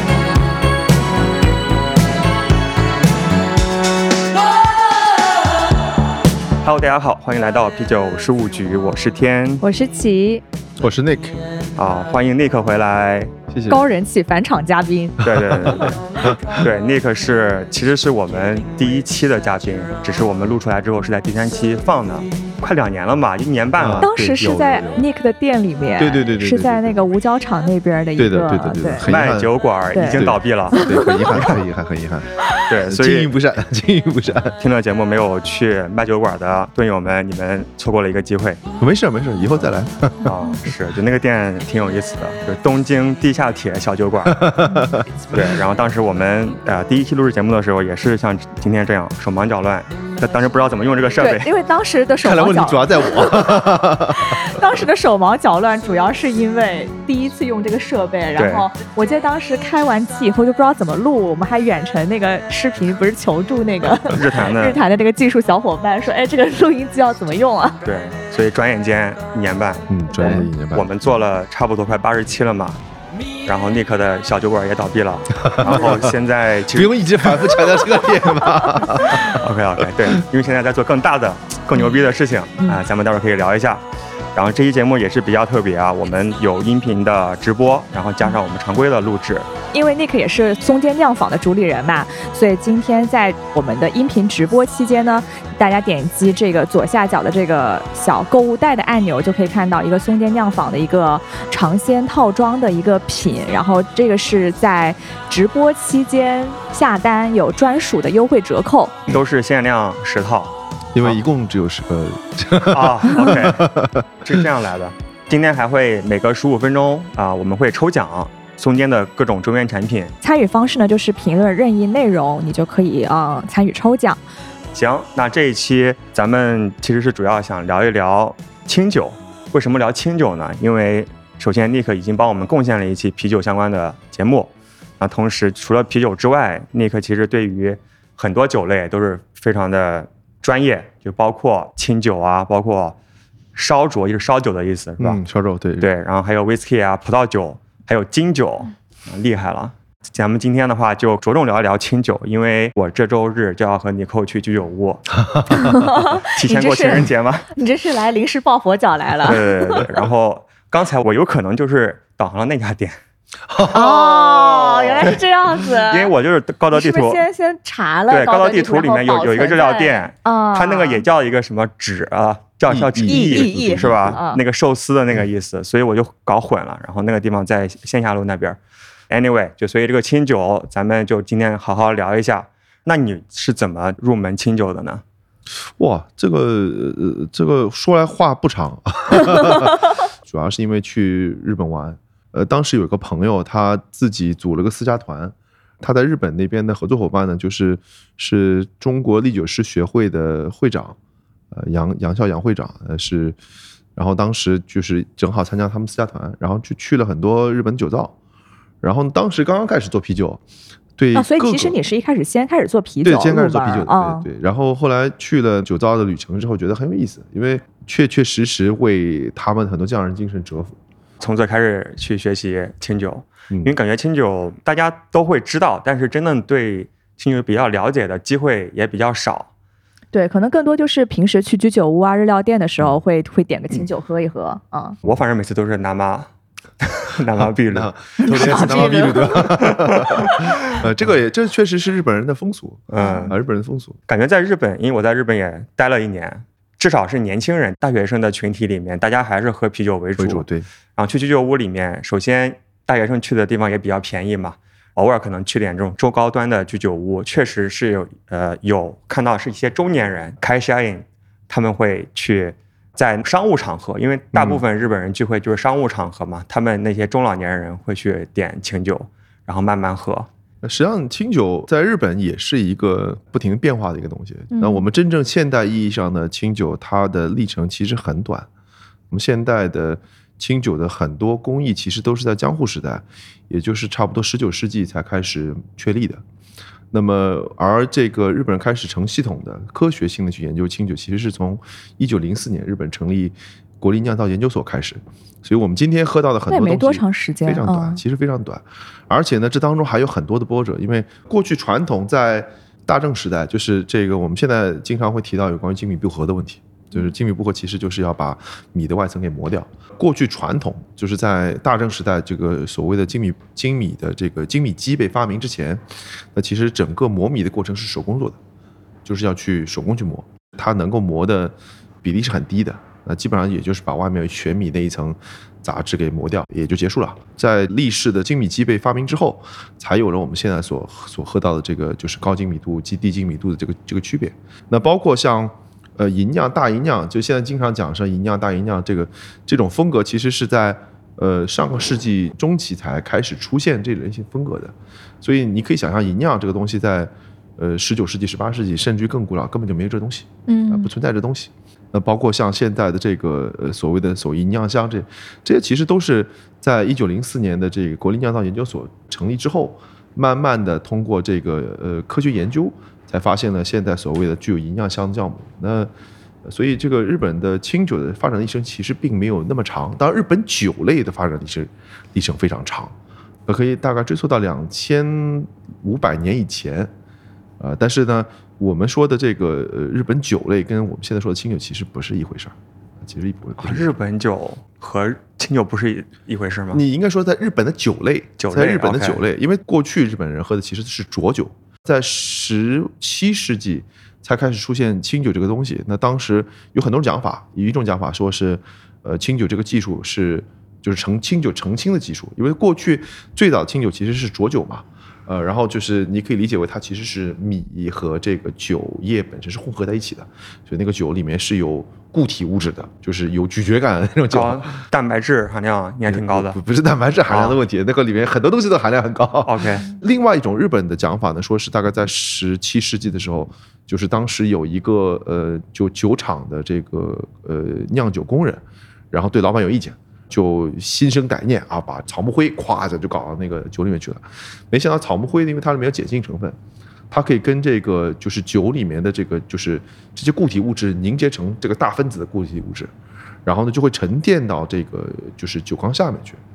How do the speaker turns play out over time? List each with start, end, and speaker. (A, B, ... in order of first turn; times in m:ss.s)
0:06.6-0:09.6 A
0:09.6-0:10.4 B
0:10.8-0:11.4 C
0:11.8-0:13.3 A
0:13.5-0:13.9 C
0:13.7-0:15.2 B
0:15.2-0:16.6 C
0:15.2-0:15.9 A
0:16.6-0:24.3 A
0:23.8-0:25.1 C
0:24.0-0:29.0 B
0:26.0-0:27.0 C
0:28.2-0:29.5 C
0:29.0-0:31.6 A
0:29.9-0:31.4 B
0:30.1-0:32.3 C
0:32.7-0:33.3 A
0:32.8-0:34.6 C
0:34.6-0:38.6 A
0:38.8-0:40.3 C
0:40.2-0:44.4 A
0:44.2-0:45.1 C
0:44.6-0:45.0 B
0:45.3-0:51.5 A
0:51.2-1:07.8 B
0:52.2-0:54.5 C
0:58.4-0:58.7 A
1:04.0-1:04.8 A
1:07.8-1:12.8 A
1:09.9-1:10.9 C
1:10.1-1:10.5 B
1:13.4-1:17.2 A
1:15.4-1:16.2 C
1:16.7-1:19.8 C
1:18.8-1:23.8 A
1:24.3-1:29.5 A
1:29.7-1:49.0 B
1:49.0-1:51.2 A
1:50.9-1:54.5 C
1:52.7-1:53.7 A
1:54.2-2:00.1 A
2:00.2-2:04.2 B
2:04.7-2:23.0 A
2:23.5-2:25.2 A
2:25.0-2:25.9 C
2:25.8-2:35.2 A
2:35.2-2:35.7 C
2:35.5-2:39.8 B
2:36.2-2:37.5 A
2:39.2-2:43.0 A
2:43.5-2:44.3 C
2:43.7-2:46.1 B
2:43.7-2:47.2 A
2:46.7-2:51.0 B
2:48.1-2:58.6 A
2:52.7-2:54.2 C
2:53.0-2:54.4 B
2:59.1-3:05.0 A
3:05.6-3:21.0 C
3:21.5-3:23.4 C
3:24.0-3:28.1 C
3:28.8-3:30.4 C
3:31.0-3:31.8 C
3:31.1-3:34.2 B
3:33.0-3:40.8 C
3:41.2-3:49.5 A
3:50.1-3:55.0 B
3:55.0-3:56.3 A
3:56.8-4:00.8 A
3:57.4-4:04.0 C
3:58.2-3:59.5 B
4:00.1-4:00.5 B
4:02.9-4:03.3 A
4:03.0-4:03.3 B
4:04.1-4:30.3 A
4:10.2-4:10.7 C
4:24.3-4:24.6 C
4:30.6-4:38.5 C
4:34.5-4:34.8 B
4:39.1-4:46.2 C
4:46.9-5:15.8 C
4:56.5-4:58.0 B
5:16.3-5:18.4 C
5:19.0-6:05.9 C
5:50.5-5:50.9 B
6:06.4-6:12.9 C
6:13.5-6:16.9 C
6:17.6-6:23.9 C
6:23.6-6:26.8 A
6:26.7-6:54.8 C
6:28.4-6:29.2 A
6:54.3-6:56.6 A
6:56.0-7:16.6 C
6:57.3-6:57.6 A
6:59.4-6:59.8 A
7:17.1-7:22.9 C
7:23.4-7:26.4 C